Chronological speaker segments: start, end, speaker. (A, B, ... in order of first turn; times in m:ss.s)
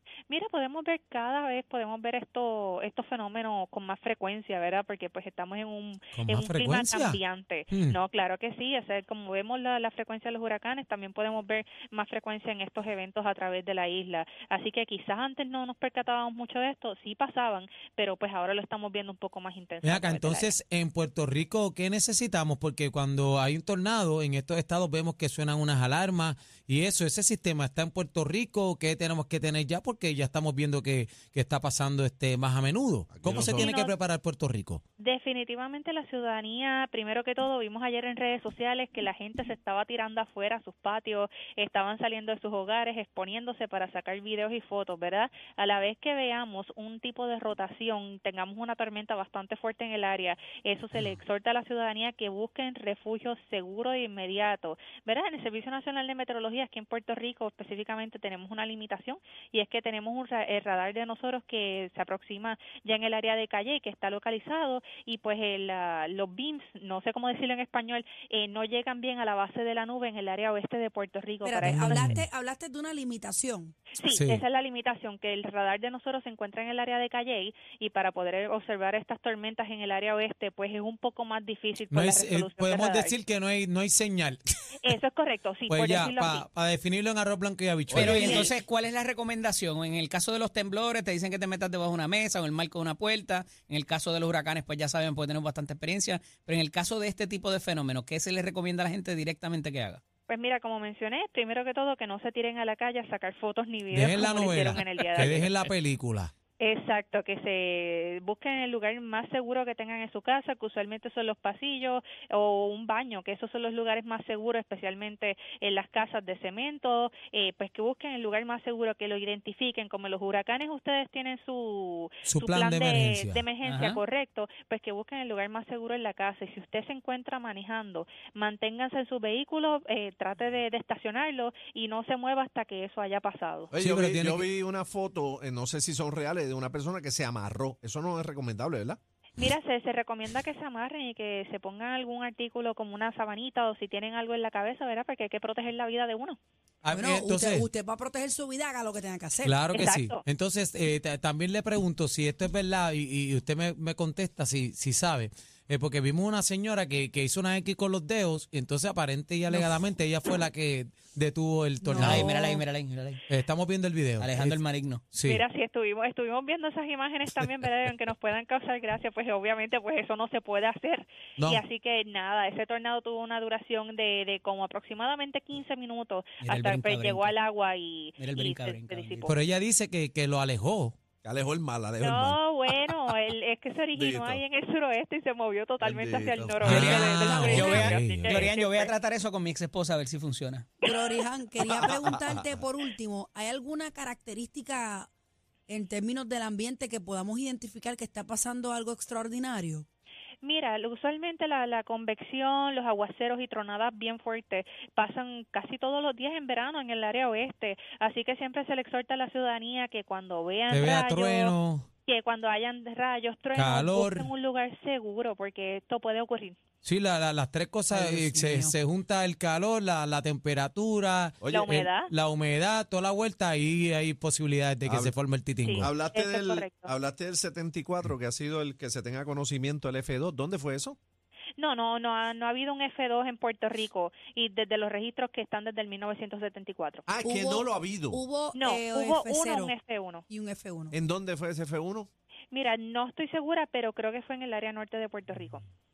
0:00.3-0:20.5 A
0:06.2-0:07.2 B
0:07.7-0:08.0 B
0:19.8-0:34.8 B
0:33.1-0:33.7 C
0:33.6-0:34.0 A
0:35.0-1:12.1 A
1:11.4-1:13.8 D
1:11.6-1:12.2 B
1:13.9-1:23.2 A
1:14.1-1:14.4 B
1:21.9-1:24.9 B
1:24.8-1:26.4 A
1:25.7-1:28.4 B
1:27.9-1:28.5 C
1:27.9-1:40.0 E
1:28.2-1:28.6 A
1:40.3-1:45.5 A
1:43.9-1:46.3 B
1:45.2-1:45.4 E
1:46.6-2:13.7 A
2:02.2-2:03.4 B
2:03.6-2:04.0 E
2:13.7-2:19.0 C
2:13.8-2:14.5 B
2:19.4-2:26.4 A
2:26.8-2:27.7 B
2:26.9-2:29.6 D
2:29.4-2:42.4 B
2:29.7-2:30.2 A
2:41.8-2:42.6 D
2:42.0-2:43.2 E
2:43.3-2:44.6 B
2:44.2-2:45.0 E
2:45.1-2:45.4 B
2:45.2-2:59.3 A
2:56.4-2:57.4 E
2:58.2-2:59.3 E
2:59.2-3:01.0 B
3:01.2-3:02.9 C
3:02.0-3:08.9 A
3:03.9-3:04.4 C
3:05.8-3:07.1 C
3:06.6-3:08.4 B
3:06.7-3:10.7 E
3:10.8-3:15.1 D
3:11.6-3:12.4 C
3:15.7-3:19.8 D
3:20.4-3:36.6 A
3:30.7-3:31.9 B
3:33.5-3:34.3 B
3:36.8-3:45.9 B
3:37.9-3:38.8 D
3:41.4-3:41.7 C
3:41.5-3:42.1 A
3:44.8-3:45.1 C
3:45.6-3:46.9 A
3:45.8-3:51.0 C
3:51.6-3:57.0 A
3:57.1-3:58.2 C
3:57.2-3:59.7 D
3:58.5-4:00.2 A
4:00.3-4:00.9 D
4:00.9-4:02.1 C
4:02.5-4:05.6 A